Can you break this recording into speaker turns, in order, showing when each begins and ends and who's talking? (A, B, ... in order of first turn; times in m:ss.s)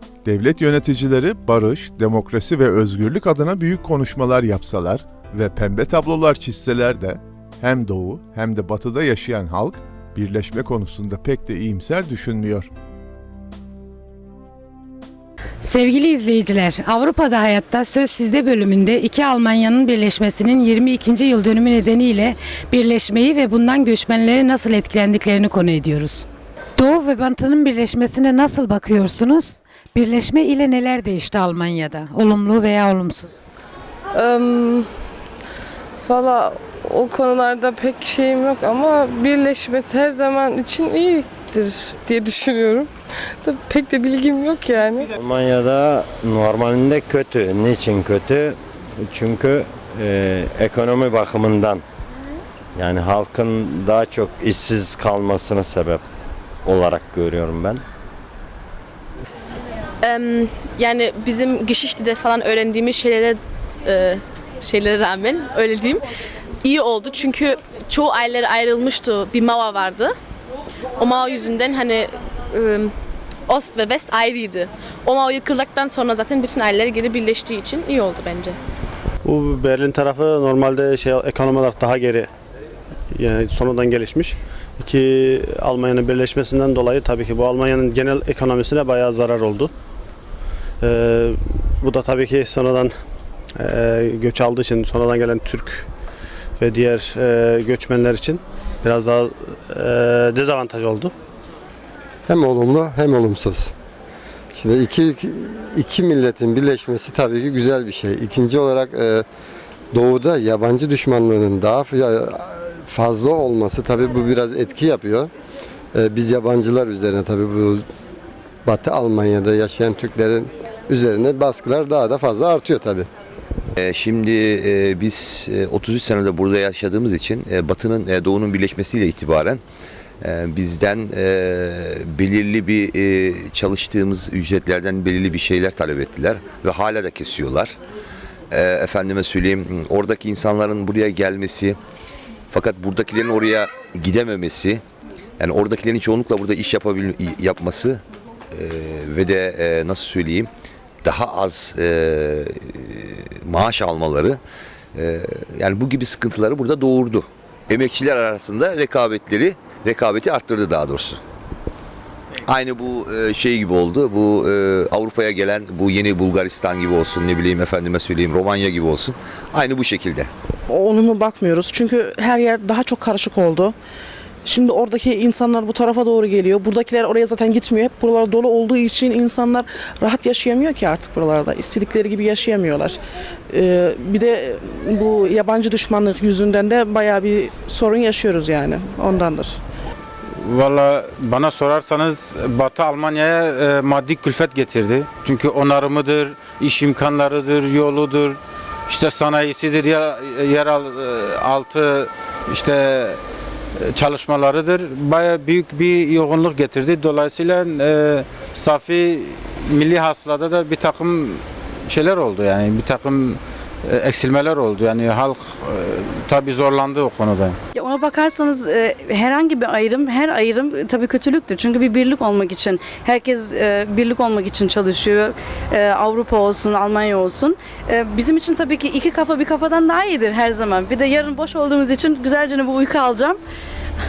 0:00.2-0:12.7 A
0:15.6-0:26.2 B
0:26.8-0:33.4 B
0:34.1-0:34.9 C
0:36.0-0:42.9 C
0:43.4-0:45.1 C
0:45.2-0:51.8 D
0:52.8-0:56.0 D
0:56.6-0:57.8 D
1:00.0-1:06.0 E
1:06.6-1:10.1 E
1:11.0-1:12.9 E
1:13.5-1:18.6 E
1:19.2-1:22.3 F
1:23.1-1:29.7 F
1:30.8-1:32.9 F
1:33.6-1:35.9 F
1:36.6-1:41.1 F
1:42.3-1:43.7 G
1:44.5-1:49.2 G
1:49.9-1:55.3 G
1:55.9-1:57.8 G
1:58.6-2:03.1 G
2:03.8-2:09.6 H
2:10.2-2:17.8 H
2:18.5-2:21.8 H
2:22.5-2:24.8 H
2:25.4-2:30.5 H
2:31.0-2:34.4 H
2:34.9-2:41.2 H
2:42.4-2:50.3 H
2:50.7-2:53.7 I
2:54.5-3:03.0 I
3:03.5-3:09.6 I
3:10.4-3:23.2 J
3:23.8-3:37.6 J
3:37.7-3:53.4 K